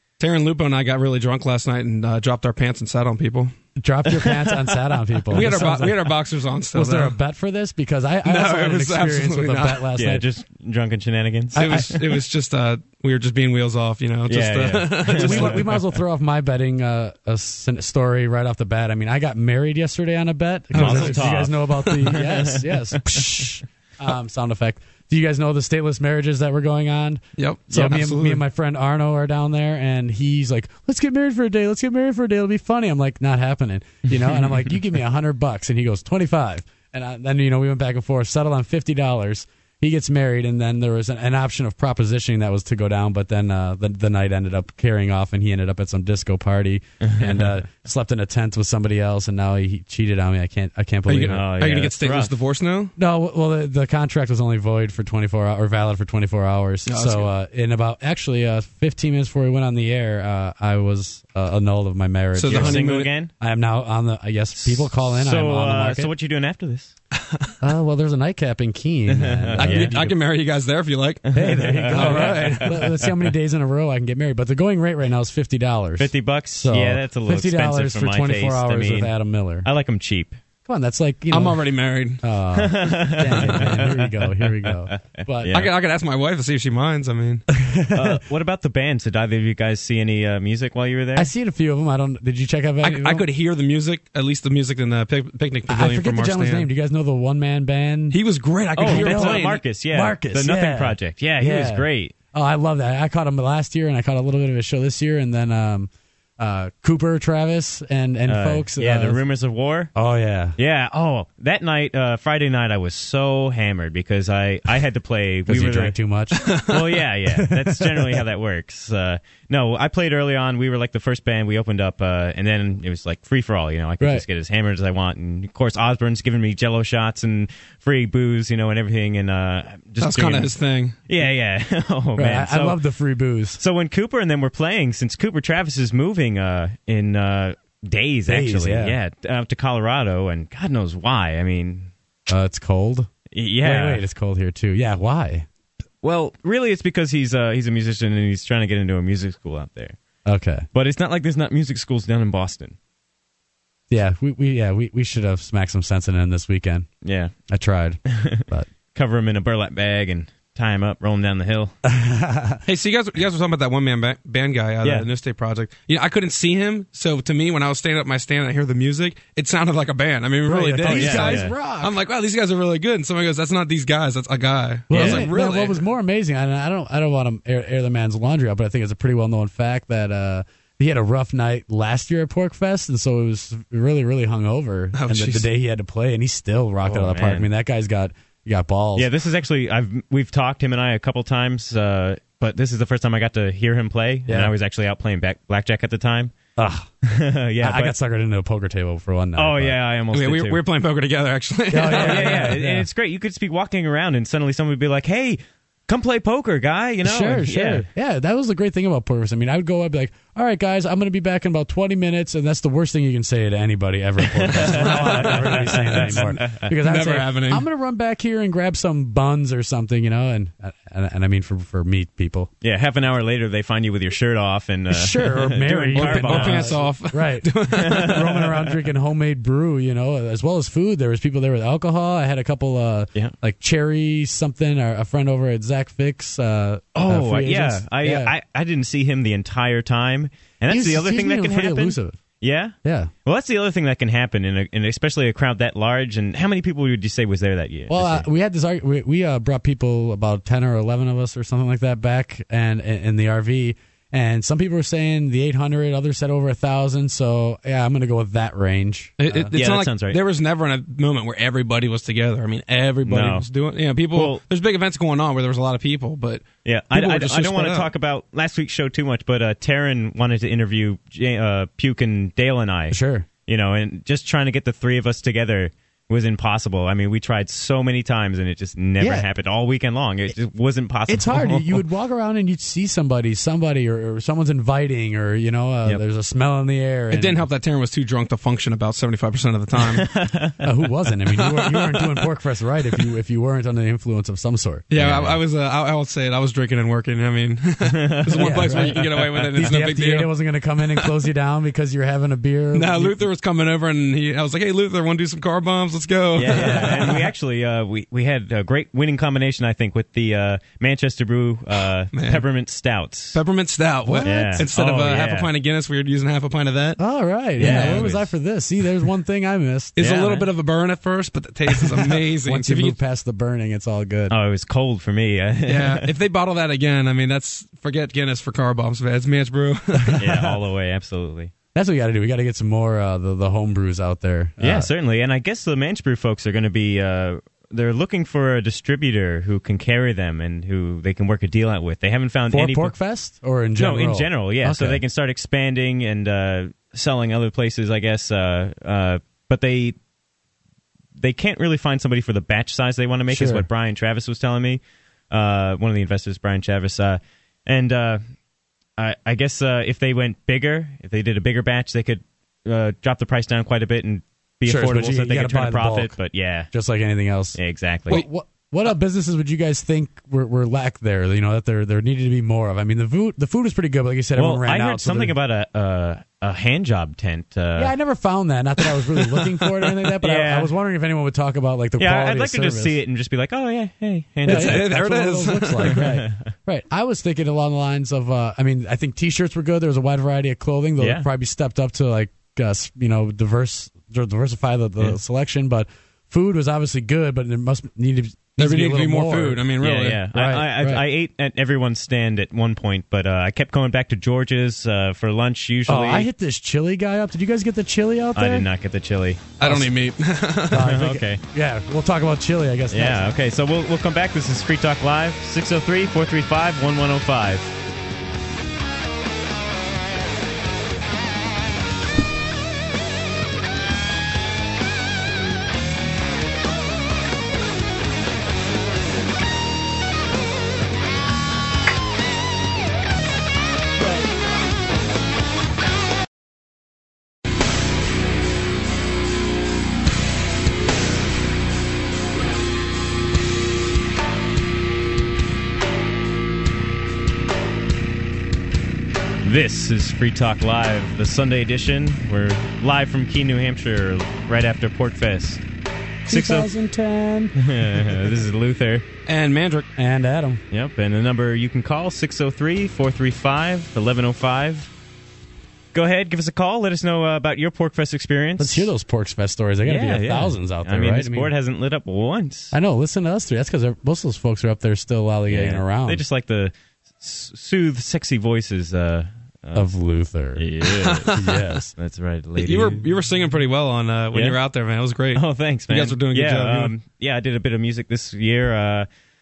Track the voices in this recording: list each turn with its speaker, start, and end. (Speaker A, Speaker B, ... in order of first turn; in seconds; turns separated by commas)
Speaker A: 0.2-3.5, Speaker B: 3.8-5.9, Speaker A: 4.0-7.2, Speaker B: 6.7-10.2, Speaker A: 8.2-9.9, Speaker C: 9.9-12.0, Speaker A: 11.5-15.8, Speaker C: 14.3-15.7, Speaker B: 15.1-51.5, Speaker A: 20.7-21.3, Speaker C: 20.7-22.7, Speaker A: 27.4-28.4, Speaker C: 47.0-47.4, Speaker A: 51.1-52.9, Speaker C: 51.3-52.3, Speaker B: 53.0-66.1, Speaker A: 56.9-57.3, Speaker A: 62.3-63.1, Speaker C: 62.4-63.3, Speaker C: 64.5-66.9, Speaker B: 67.6-70.1, Speaker C: 69.1-70.0, Speaker A: 69.6-72.8, Speaker C: 71.3-73.1, Speaker B: 71.3-79.7, Speaker C: 76.0-80.4, Speaker B: 80.7-81.6, Speaker A: 81.3-82.2, Speaker B: 82.2-85.5, Speaker C: 82.5-85.7, Speaker A: 85.5-87.4, Speaker B: 87.8-88.2, Speaker C: 87.9-91.3, Speaker B: 91.2-93.2, Speaker A: 92.8-96.7, Speaker B: 95.7-98.2, Speaker A: 98.1-99.6, Speaker C: 98.8-102.1, Speaker B: 98.8-109.2, Speaker C: 108.2-109.9, Speaker B: 109.9-110.5, Speaker C: 110.6-116.0, Speaker B: 115.5-116.4, Speaker A: 116.4-116.8, Speaker C: 116.7-130.5, Speaker B: 117.4-118.2, Speaker A: 130.0-130.9, Speaker C: 131.1-132.8, Speaker B: 132.2-133.6, Speaker C: 133.6-141.9, Speaker B: 138.3-139.0, Speaker B: 142.3-143.1, Speaker C: 143.3-144.0, Speaker B: 143.6-145.4, Speaker C: 146.0-150.0, Speaker B: 150.2-150.6, Speaker C: 150.7-152.8, Speaker B: 153.9-156.9, Speaker C: 157.0-157.3, Speaker B: 157.5-158.7, Speaker C: 158.1-161.7, Speaker B: 161.9-162.6, Speaker A: 162.7-175.8, Speaker B: 170.4-171.9, Speaker C: 170.8-171.5, Speaker B: 174.9-189.1, Speaker C: 174.9-175.3, Speaker A: 184.9-185.5, Speaker C: 186.8-187.5, Speaker C: 188.9-196.3, Speaker B: 194.3-194.5, Speaker B: 196.6-196.9, Speaker C: 197.0-197.9, Speaker B: 197.6-199.7, Speaker C: 199.3-200.6, Speaker A: 200.1-202.6, Speaker B: 201.7-202.8, Speaker C: 201.8-207.9, Speaker B: 207.0-222.5, Speaker C: 214.5-216.7, Speaker A: 214.6-217.7, Speaker C: 222.6-226.8, Speaker B: 224.9-238.3, Speaker A: 225.9-228.6, Speaker C: 227.7-228.2, Speaker C: 236.9-248.2, Speaker B: 240.7-242.2, Speaker B: 242.8-243.1, Speaker B: 247.9-259.5, Speaker A: 259.2-267.9, Speaker C: 259.5-260.2, Speaker C: 263.0-263.4, Speaker C: 264.1-264.4, Speaker C: 266.6-281.8, Speaker B: 272.9-273.2, Speaker B: 279.0-279.3, Speaker B: 281.1-287.4, Speaker A: 287.1-290.1, Speaker C: 289.9-290.6, Speaker B: 290.6-294.8, Speaker A: 291.3-292.3, Speaker A: 294.9-300.3, Speaker C: 294.9-295.4, Speaker C: 297.9-299.7, Speaker B: 298.4-303.1, Speaker A: 300.9-301.2, Speaker A: 302.7-307.3, Speaker C: 306.4-313.4, Speaker A: 312.1-312.4, Speaker A: 313.3-317.0, Speaker B: 314.1-314.7, Speaker C: 314.2-315.5, Speaker B: 317.0-320.0, Speaker C: 317.6-318.3, Speaker A: 317.6-318.1, Speaker C: 320.0-320.5, Speaker A: 320.0-322.9, Speaker B: 322.4-324.3, Speaker C: 324.3-326.1, Speaker A: 325.7-330.5, Speaker C: 330.2-331.5, Speaker B: 331.7-334.9, Speaker C: 334.6-342.9, Speaker B: 342.5-345.0, Speaker C: 343.7-349.9, Speaker C: 351.2-358.2, Speaker B: 353.3-353.7, Speaker C: 359.0-366.7, Speaker B: 364.6-366.2, Speaker B: 366.7-367.6, Speaker C: 367.6-368.2, Speaker B: 368.1-375.3, Speaker C: 374.4-377.9, Speaker B: 377.8-382.9, Speaker A: 379.4-379.9, Speaker C: 380.2-380.7, Speaker C: 382.0-384.9, Speaker A: 384.4-386.0, Speaker B: 384.4-399.6, Speaker C: 385.8-386.5, Speaker C: 391.0-391.3, Speaker A: 398.6-400.2, Speaker C: 399.8-406.3, Speaker B: 400.3-401.0, Speaker B: 405.9-408.7, Speaker C: 408.3-409.4, Speaker A: 409.6-411.0, Speaker B: 410.7-413.4, Speaker C: 410.8-411.4, Speaker C: 412.9-417.7, Speaker C: 449.4-455.6, Speaker B: 456.3-457.5, Speaker C: 456.3-456.7, Speaker C: 457.6-459.0, Speaker A: 459.2-459.9, Speaker B: 459.9-460.6, Speaker C: 460.7-464.9, Speaker C: 465.9-468.9, Speaker B: 468.6-471.5, Speaker C: 469.8-472.8, Speaker B: 472.7-476.2, Speaker C: 475.5-479.9, Speaker B: 479.7-480.6, Speaker C: 480.5-481.3, Speaker A: 481.0-481.7, Speaker B: 481.2-481.9, Speaker C: 481.9-483.1, Speaker A: 482.6-486.9, Speaker C: 485.3-489.1